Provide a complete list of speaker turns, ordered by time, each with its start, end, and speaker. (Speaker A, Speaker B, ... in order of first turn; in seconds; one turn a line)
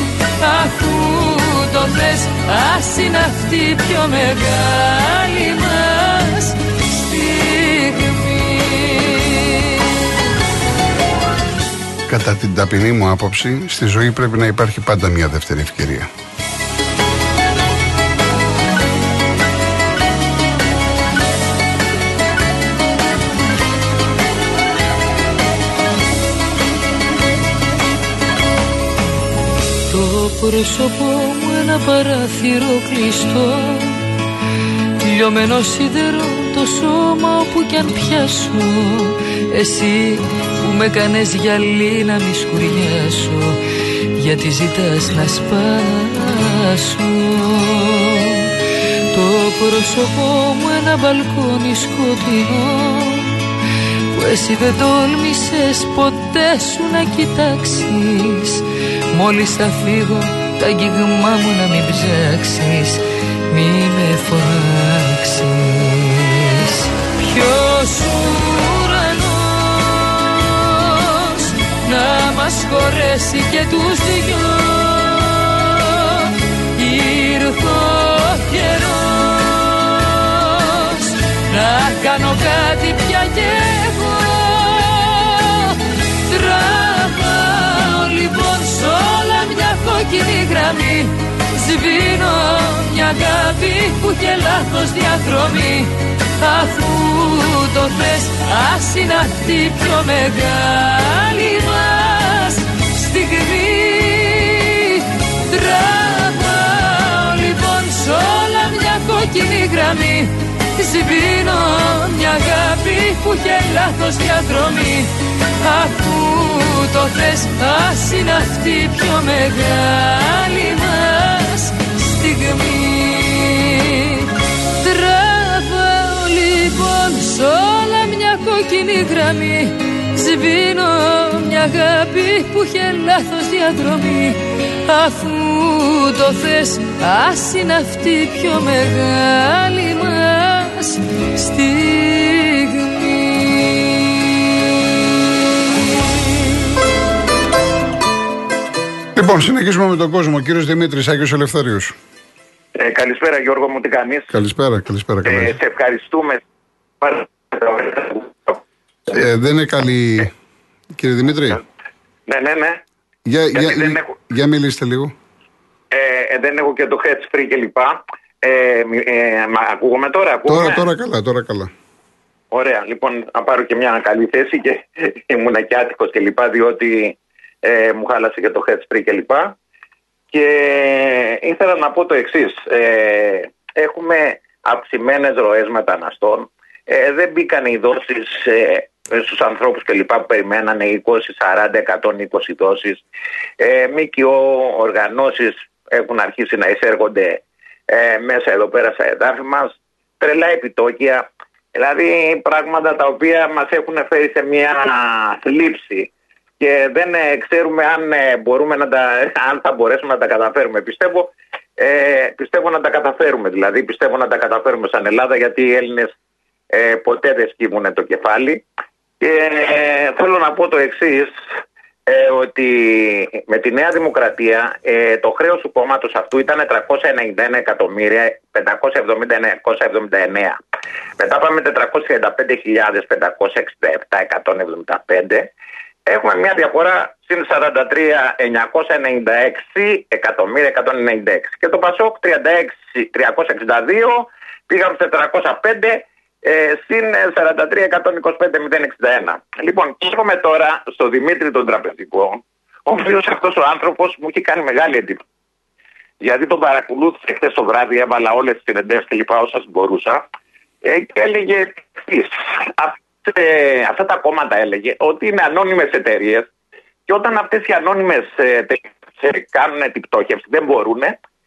Speaker A: 0.4-9.8
Speaker B: 12.1-16.1
Speaker A: 29.9-34.0
Speaker A: 35.0-43.6
Speaker A: 44.2-48.5
Speaker A: 49.1-53.4
Speaker A: 54.1-144.6
Speaker A: 146.0-146.5
Speaker B: 149.1-151.9
Speaker C: 152.7-154.3
Speaker B: 154.3-155.5
Speaker C: 155.2-156.4
Speaker C: 157.0-158.6
Speaker B: 159.1-160.3
Speaker B: 160.9-161.6
Speaker C: 162.3-162.8
Speaker B: 163.2-165.1
Speaker C: 163.5-164.1
Speaker C: 165.9-170.8
Speaker B: 170.5-171.7
Speaker C: 172.5-179.5
Speaker C: 180.3-193.0
Speaker C: 193.6-216.1
Speaker C: 216.7-218.6
Speaker C: 219.2-221.3
Speaker C: 222.1-230.6
Speaker C: 231.2-235.5
Speaker C: 236.1-255.2
Speaker C: 256.2-260.2
Speaker C: 260.8-266.5
Speaker C: 267.1-271.1